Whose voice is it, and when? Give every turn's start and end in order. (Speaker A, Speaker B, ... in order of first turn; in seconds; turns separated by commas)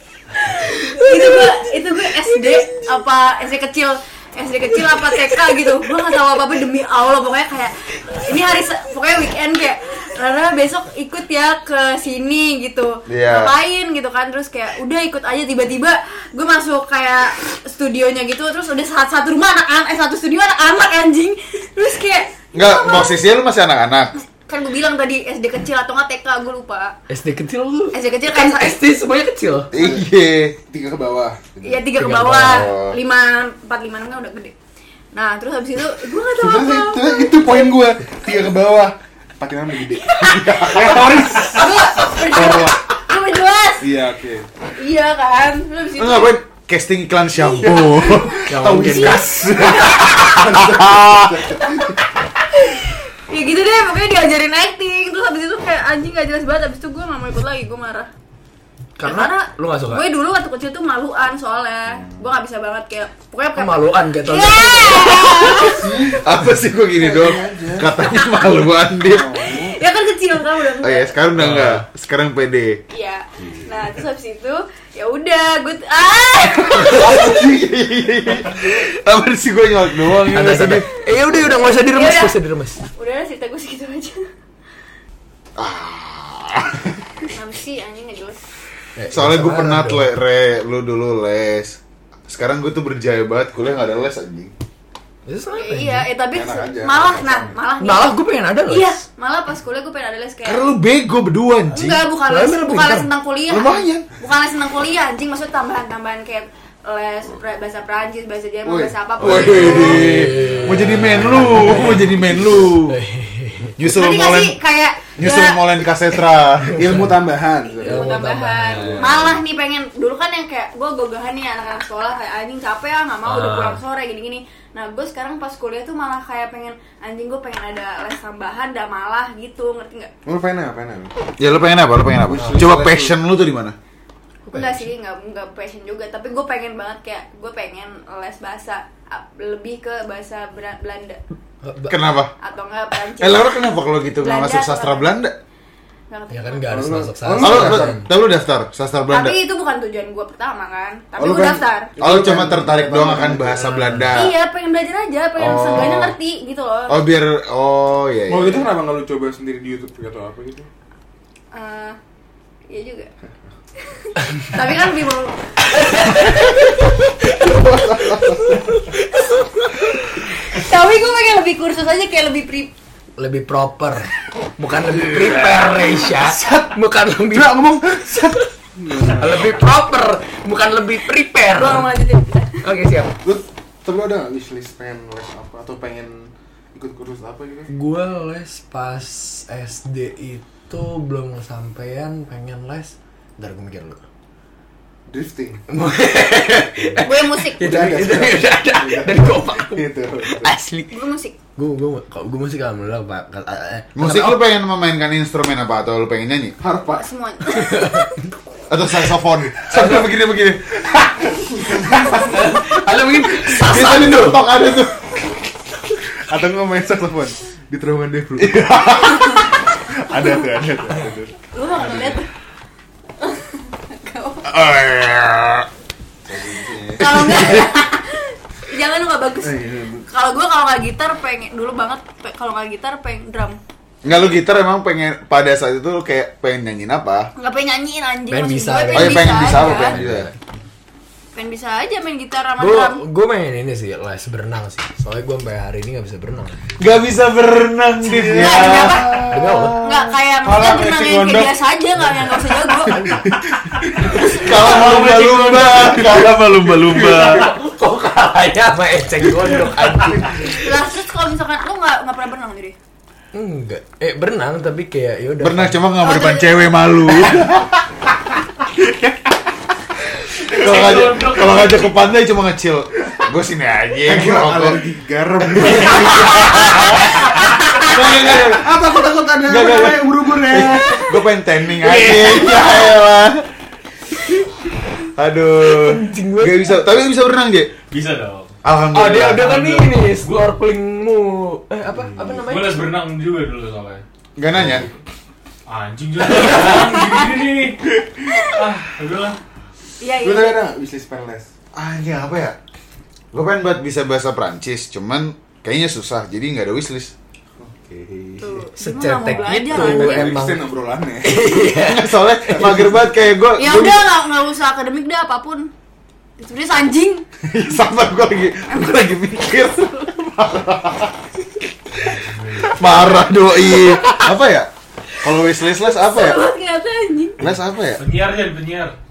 Speaker A: 0.5-1.6, Speaker B: 0.6-23.2, Speaker C: 13.1-13.5, Speaker C: 22.5-24.1, Speaker B: 24.1-26.9, Speaker A: 27.1-29.7, Speaker B: 27.9-28.8, Speaker C: 29.7-30.6, Speaker D: 29.7-30.1, Speaker D: 30.7-31.8, Speaker B: 31.6-34.5, Speaker A: 31.9-32.7, Speaker C: 32.5-33.0, Speaker B: 35.1-37.9, Speaker D: 36.3-42.8, Speaker B: 40.0-44.0, Speaker C: 40.3-41.3, Speaker D: 43.8-44.5, Speaker B: 44.7-46.4, Speaker C: 46.0-48.5, Speaker B: 47.4-50.4, Speaker D: 47.6-52.0, Speaker A: 48.5-49.7, Speaker C: 49.6-51.5, Speaker B: 52.5-58.1, Speaker A: 59.0-60.0, Speaker B: 59.0-66.0, Speaker D: 61.9-62.2, Speaker A: 63.5-65.4, Speaker D: 65.5-68.0, Speaker C: 66.2-69.5, Speaker B: 68.1-68.5, Speaker D: 69.0-69.8, Speaker B: 69.4-71.2, Speaker C: 70.8-72.8, Speaker A: 71.3-71.8, Speaker B: 72.9-77.5, Speaker C: 76.8-81.5, Speaker D: 76.8-77.6, Speaker A: 80.2-82.8, Speaker B: 81.4-84.2, Speaker C: 85.5-87.1, Speaker B: 87.2-88.4, Speaker A: 89.0-90.0, Speaker C: 89.1-94.5, Speaker A: 95.2-96.1, Speaker B: 95.5-100.7, Speaker D: 96.3-97.6, Speaker A: 97.8-99.0, Speaker C: 100.4-102.1, Speaker B: 101.7-110.5, Speaker A: 102.3-103.1, Speaker C: 103.5-104.0, Speaker D: 108.6-109.0, Speaker C: 109.2-113.0, Speaker A: 109.2-113.7, Speaker D: 110.8-112.7, Speaker C: 113.8-114.6, Speaker B: 113.8-116.2, Speaker C: 115.2-117.0, Speaker D: 116.7-119.4, Speaker A: 116.7-117.2, Speaker B: 117.7-130.1, Speaker A: 117.8-119.2, Speaker A: 123.2-123.8, Speaker D: 130.2-131.1, Speaker C: 131.4-133.8, Speaker D: 132.2-133.1, Speaker A: 134.5-134.9, Speaker B: 134.5-141.2, Speaker A: 141.6-141.9, Speaker C: 141.9-142.3, Speaker B: 142.4-143.6, Speaker C: 143.2-145.4, Speaker B: 144.2-145.1, Speaker B: 146.1-146.7, Speaker A: 146.3-148.1, Speaker D: 146.7-148.0, Speaker C: 147.4-149.4, Speaker B: 149.1-151.9, Speaker D: 151.2-153.6, Speaker C: 152.0-154.3, Speaker A: 153.4-154.2, Speaker B: 154.1-157.0, Speaker C: 155.4-156.2, Speaker C: 156.9-158.7, Speaker D: 158.3-160.7, Speaker B: 161.5-162.0, Speaker B: 162.7-163.1, Speaker B: 163.9-166.6, Speaker A: 165.7-170.6, Speaker D: 167.4-168.8, Speaker B: 170.0-172.7, Speaker A: 173.2-182.0, Speaker D: 175.0-176.7, Speaker D: 177.3-179.5, Speaker B: 181.5-182.6, Speaker A: 182.6-183.2, Speaker D: 183.2-187.7, Speaker A: 187.7-194.0, Speaker D: 195.1-195.6, Speaker A: 195.7-201.0, Speaker D: 196.7-197.0, Speaker B: 197.0-197.8, Speaker D: 197.6-200.5, Speaker B: 200.9-201.4, Speaker A: 201.6-204.4, Speaker C: 203.9-206.6, Speaker D: 206.6-207.1, Speaker B: 206.9-208.1, Speaker A: 207.5-208.2, Speaker C: 208.7-212.6, Speaker A: 209.7-210.1, Speaker D: 210.9-212.4, Speaker A: 212.1-214.5, Speaker C: 213.5-215.2, Speaker D: 213.7-214.1, Speaker D: 216.1-218.7, Speaker C: 218.4-219.5, Speaker B: 219.1-219.5, Speaker D: 219.7-221.4, Speaker B: 221.5-222.3, Speaker B: 223.2-224.4, Speaker C: 224.4-225.7, Speaker D: 226.2-227.6, Speaker B: 227.0-234.1, Speaker D: 229.4-230.1, Speaker C: 234.0-237.3, Speaker B: 237.3-240.0, Speaker A: 238.3-240.4, Speaker C: 238.9-240.3, Speaker B: 241.3-243.0, Speaker A: 242.6-246.7, Speaker C: 246.8-251.5, Speaker D: 248.0-249.7, Speaker B: 248.4-253.1, Speaker A: 249.3-249.8, Speaker D: 252.9-254.5, Speaker A: 252.9-253.2, Speaker C: 254.0-257.5, Speaker A: 254.1-260.8, Speaker B: 254.2-254.8, Speaker E: 254.5-256.2, Speaker D: 259.9-260.4, Speaker B: 260.3-262.8, Speaker A: 263.3-265.8, Speaker C: 265.4-267.8, Speaker B: 266.0-266.9, Speaker E: 270.4-271.9, Speaker C: 270.5-274.8, Speaker D: 274.1-281.1, Speaker C: 275.5-278.8, Speaker C: 279.4-283.5, Speaker D: 281.9-282.7, Speaker C: 285.0-287.7, Speaker A: 285.7-286.9, Speaker E: 287.9-288.5, Speaker C: 288.6-289.9, Speaker A: 288.9-292.9, Speaker D: 291.9-292.3, Speaker E: 292.4-294.0, Speaker C: 294.4-294.9, Speaker E: 295.7-299.4, Speaker B: 300.0-300.7, Speaker D: 300.1-301.5, Speaker C: 301.7-302.6, Speaker C: 303.3-307.1, Speaker D: 307.6-308.7, Speaker B: 308.4-310.4, Speaker A: 308.8-310.6, Speaker D: 309.4-311.5, Speaker A: 311.2-312.2, Speaker C: 311.8-314.1, Speaker D: 312.4-313.0, Speaker B: 313.6-315.7, Speaker B: 316.4-317.2, Speaker C: 317.5-321.2, Speaker B: 318.7-319.1, Speaker E: 322.0-322.8, Speaker C: 322.6-326.5, Speaker B: 325.9-327.4, Speaker C: 327.4-328.0, Speaker E: 327.9-328.9